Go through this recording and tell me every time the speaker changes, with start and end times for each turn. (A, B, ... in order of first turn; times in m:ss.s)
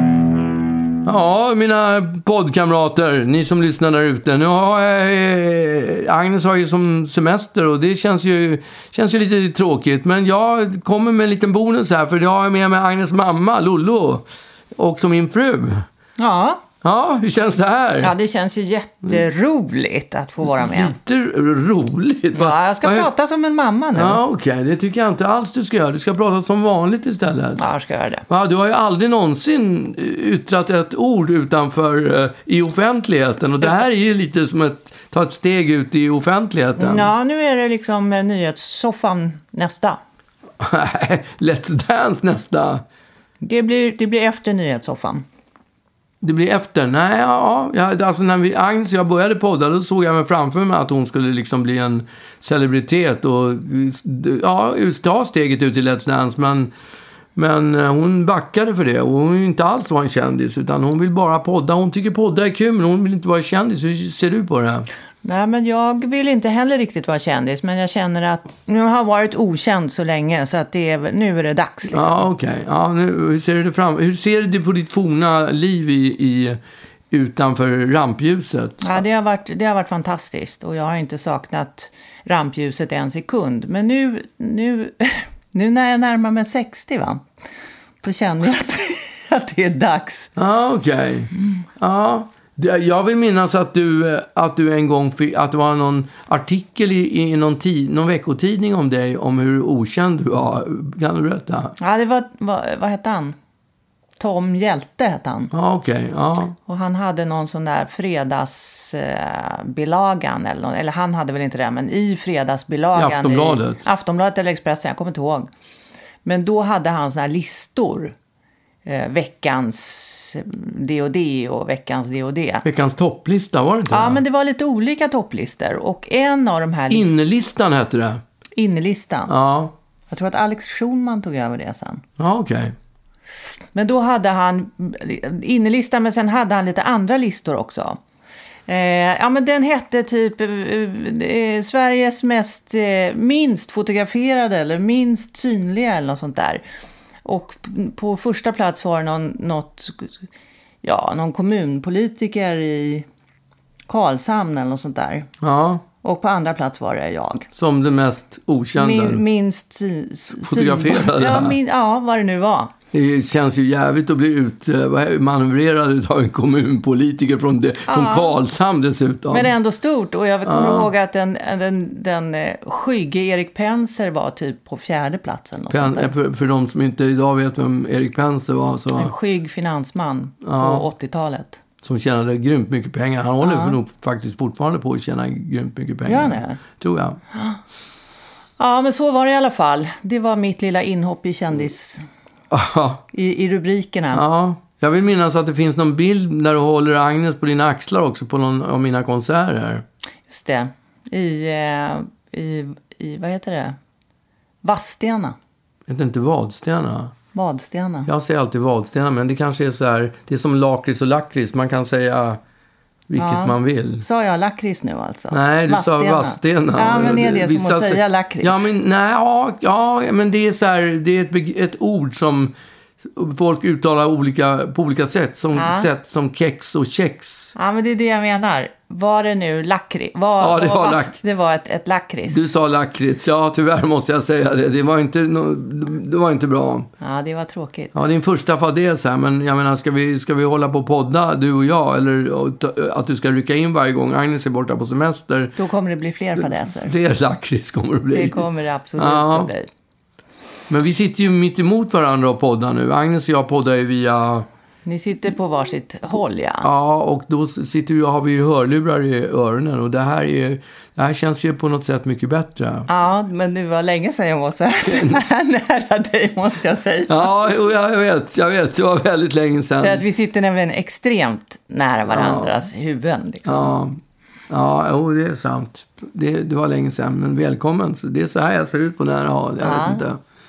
0:01.0-0:15.8 A
0:16.2-0:16.6 B
0:16.8-0:18.1 A
0:18.0-0:21.0 B
0:20.6-0:23.1 A
0:22.3-0:24.2 B
0:23.9-0:27.6 A
0:27.6-0:28.2 B
0:28.3-0:37.1 A
0:36.8-0:40.0 B
0:40.6-0:42.8 A
0:43.4-0:45.2 B
0:46.2-0:56.7 A
0:57.4-1:04.9 A
1:05.2-1:12.2 B
1:11.9-1:16.6 A
1:17.1-1:19.0 A
1:18.8-1:27.2 B
1:28.0-1:30.3 B
1:30.4-1:41.8 A
1:41.8-1:43.4 B
1:44.2-1:45.5 B
1:45.5-1:46.6 A
1:46.6-1:55.5 B
1:52.9-1:53.8 A
1:56.2-1:58.1 B
1:58.8-2:02.6 B
2:02.6-2:04.2 A
2:03.9-2:07.1 B
2:06.9-2:08.2 A
2:08.6-2:09.3 B
2:09.3-2:09.7 A
2:10.1-2:12.0 B
2:12.2-2:12.8 A
2:13.7-2:18.0 B
2:18.7-2:26.6 B
2:27.2-2:30.2 B
2:30.8-2:33.0 B
2:33.9-2:35.3 B
2:35.4-2:35.8 A
2:36.0-2:37.5 B
2:37.5-2:39.2 A
2:38.8-2:42.7 B
2:40.4-2:41.6 A
2:42.9-2:49.5 A
2:47.9-2:48.3 B
2:49.3-2:56.1 B
2:50.4-2:50.9 A
2:55.7-2:59.1 A
2:58.9-3:01.6 B
3:00.4-3:00.8 A
3:01.8-3:07.2 A
3:03.4-3:03.8 B
3:06.0-3:06.6 B
3:07.3-3:07.6 B
3:08.6-3:12.0 B
3:12.5-3:13.0 A
3:13.1-3:14.2 B
3:14.1-3:19.8 A
3:20.3-3:23.8 B
3:24.6-3:25.3 B
3:25.9-3:27.1 A
3:27.3-3:28.1 B
3:28.1-3:32.4 A
3:33.1-3:34.0 A
3:33.2-3:38.7 B
3:35.3-3:47.5 A
3:45.5-3:45.9 B
3:47.6-3:52.4 B
3:50.4-3:51.2 A
3:52.3-3:56.9 A
3:57.0-3:58.0 B
3:57.9-4:05.6 A
4:05.6-4:06.9 B
4:06.4-4:08.4 A
4:08.1-4:09.7 B
4:09.0-4:09.5 A
4:10.7-4:14.5 A
4:14.8-4:16.7 B
4:16.6-4:22.9 A
4:22.9-4:27.3 B
4:24.8-4:25.2 A
4:27.1-4:30.0 A
4:29.8-4:33.7 B
4:32.1-4:32.5 A
4:33.4-4:40.2 A
4:39.6-4:40.0 B